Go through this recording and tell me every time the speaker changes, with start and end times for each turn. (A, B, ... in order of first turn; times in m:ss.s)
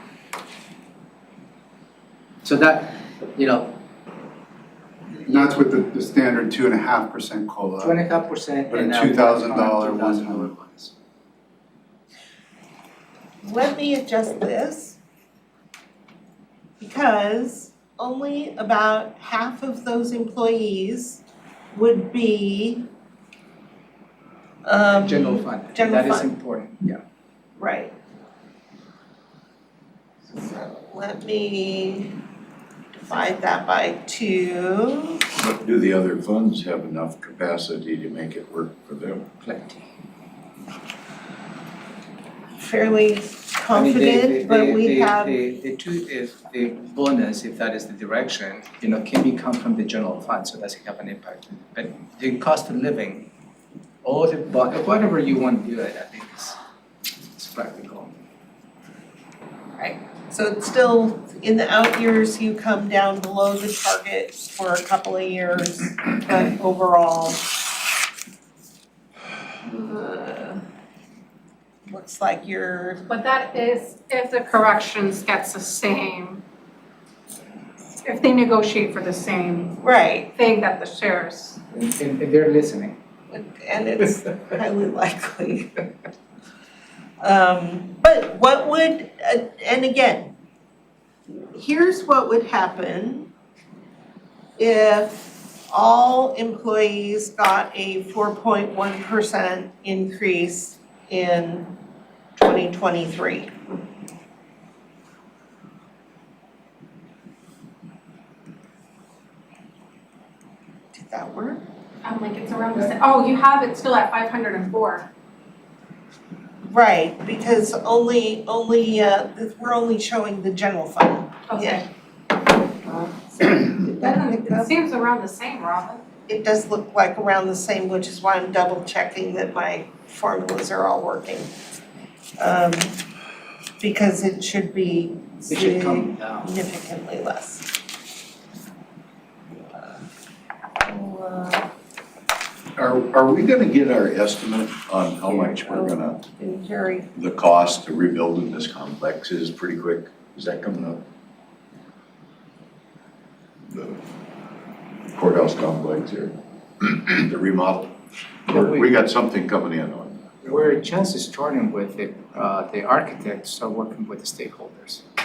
0:02.4-0:03.7 A
0:05.2-0:08.0 B
0:07.8-0:10.9 A
0:08.7-0:10.5 B
0:13.4-0:15.0 C
0:16.8-0:21.2 C
0:21.7-0:22.8 C
0:24.6-0:26.3 C
0:24.9-0:27.0 A
0:27.6-0:27.9 C
0:30.3-0:32.2 C
0:32.9-0:35.2 C
0:35.4-0:39.2 D
0:39.4-0:39.8 A
0:42.6-0:45.4 C
0:43.7-0:53.3 A
0:54.0-0:56.6 A
0:57.3-0:58.1 A
0:59.8-1:07.4 C
1:09.6-1:10.6 C
1:11.9-1:13.0 C
1:13.1-1:16.4 E
1:18.0-1:21.6 E
1:19.8-1:20.3 C
1:21.7-1:23.0 A
1:23.3-1:25.8 C
1:27.2-1:30.3 C
1:31.4-1:33.3 C
1:34.6-1:41.7 C
1:42.4-1:43.5 C
1:50.9-1:51.6 C
1:52.0-1:55.1 E
1:56.7-2:01.8 C
2:01.5-2:01.8 E
2:02.6-2:04.7 C
2:03.8-2:06.0 E
2:06.3-2:11.5 C
2:12.4-2:13.0 C
2:13.8-2:17.7 C
2:15.4-2:16.5 A
2:20.8-2:21.7 C
2:22.8-2:26.2 D
2:25.2-2:27.1 C
2:27.1-2:31.0 D
2:33.7-2:34.0 D
2:35.1-2:40.7 D
2:38.5-2:38.9 A
2:40.4-2:45.0 A